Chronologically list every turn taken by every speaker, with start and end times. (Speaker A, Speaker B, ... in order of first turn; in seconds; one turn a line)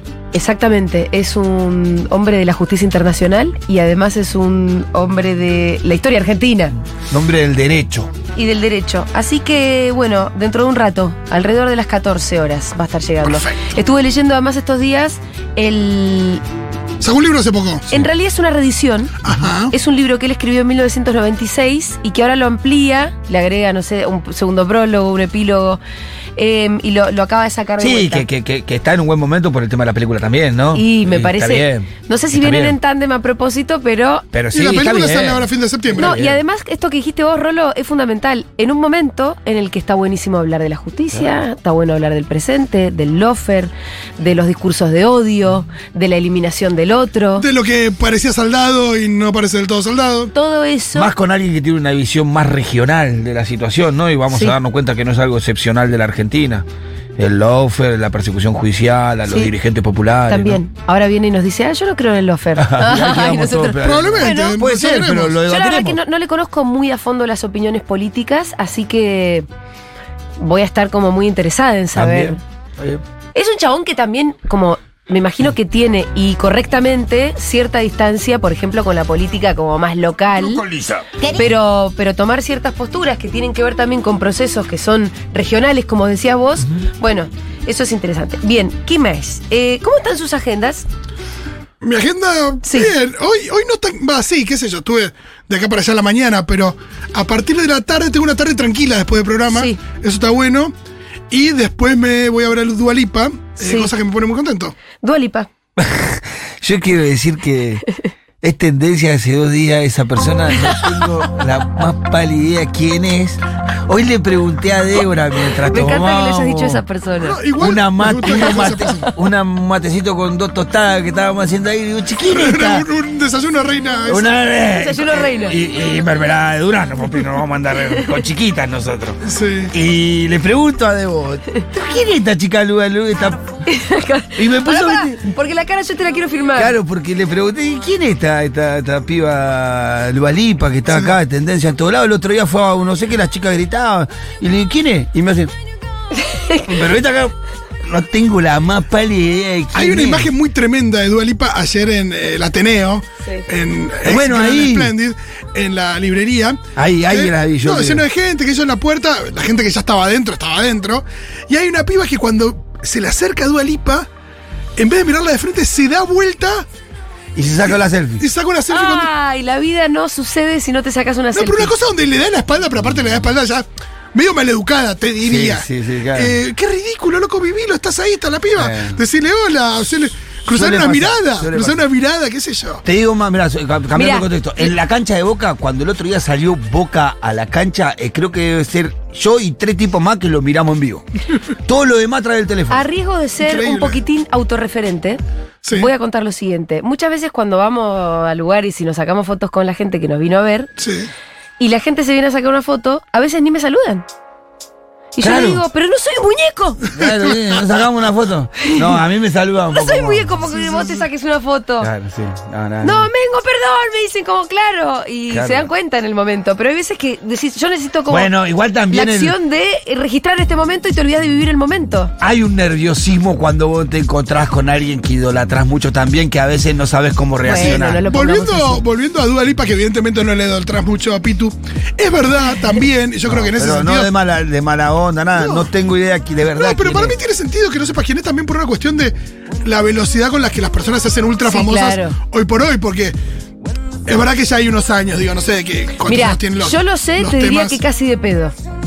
Speaker A: 0.3-6.7
Speaker B: 7.1-8.1
Speaker A: 8.3-16.4
Speaker C: 13.2-13.6
Speaker C: 17.0-17.9
Speaker A: 17.9-19.1
Speaker C: 19.2-19.7
Speaker A: 19.7-25.8
Speaker A: 26.4-28.3
Speaker B: 27.8-32.8
Speaker A: 30.7-34.2
Speaker B: 34.3-36.4
Speaker C: 34.5-36.2
Speaker A: 36.0-47.5
Speaker C: 47.4-50.3
Speaker A: 50.3-51.1
Speaker B: 50.9-56.6
Speaker B: 57.2-60.6
Speaker A: 60.3-64.7
Speaker B: 62.6-66.0
Speaker C: 63.8-65.3
Speaker A: 65.4-69.5
Speaker A: 70.4-72.4
Speaker B: 71.9-73.0
Speaker A: 73.3-80.6
Speaker B: 80.3-81.1
Speaker A: 81.3-90.8
Speaker C: 91.8-100.7
Speaker A: 92.6-92.9
Speaker A: 99.5-99.8
Speaker C: 101.3-104.8
Speaker A: 103.6-103.9
Speaker A: 105.0-105.5
Speaker B: 105.8-107.8
Speaker B: 108.4-116.8
Speaker A: 115.7-117.4
Speaker C: 117.2-119.1
Speaker B: 117.6-122.8
Speaker C: 122.2-124.2
Speaker B: 124.1-129.2
Speaker A: 124.8-125.6
Speaker C: 129.2-129.7
Speaker B: 129.7-133.4
Speaker A: 133.7-136.8
Speaker B: 134.3-135.2
Speaker B: 136.6-145.5
Speaker A: 146.2-146.7
Speaker B: 146.7-147.3
Speaker B: 147.8-150.3
Speaker C: 149.7-164.1
Speaker B: 154.0-154.9
Speaker B: 156.8-158.0
Speaker C: 164.8-166.7
Speaker B: 167.3-168.2
Speaker C: 168.2-169.1
Speaker A: 168.7-171.7
Speaker C: 171.3-182.8
Speaker B: 175.2-176.3
Speaker B: 178.6-179.0
Speaker B: 180.5-181.8
Speaker B: 182.8-191.0
Speaker A: 183.9-184.7
Speaker B: 191.6-192.8
Speaker A: 192.7-195.2
Speaker C: 193.4-194.0
Speaker C: 195.6-195.9
Speaker A: 195.7-200.7
Speaker C: 200.8-201.1
Speaker A: 201.6-204.0
Speaker A: 205.2-206.8
Speaker B: 205.2-205.6
Speaker B: 206.9-210.4
Speaker A: 208.6-209.0
Speaker A: 209.7-211.9
Speaker B: 211.8-213.1
Speaker A: 212.8-218.3
Speaker B: 215.3-215.7
Speaker B: 218.1-219.4
Speaker A: 218.9-222.1
Speaker B: 222.2-228.0
Speaker A: 227.4-228.8
Speaker C: 227.5-234.1
Speaker B: 233.2-237.2
Speaker C: 235.4-235.7
Speaker C: 236.6-243.2
Speaker A: 241.4-242.2
Speaker C: 244.1-247.8
Speaker A: 246.1-248.5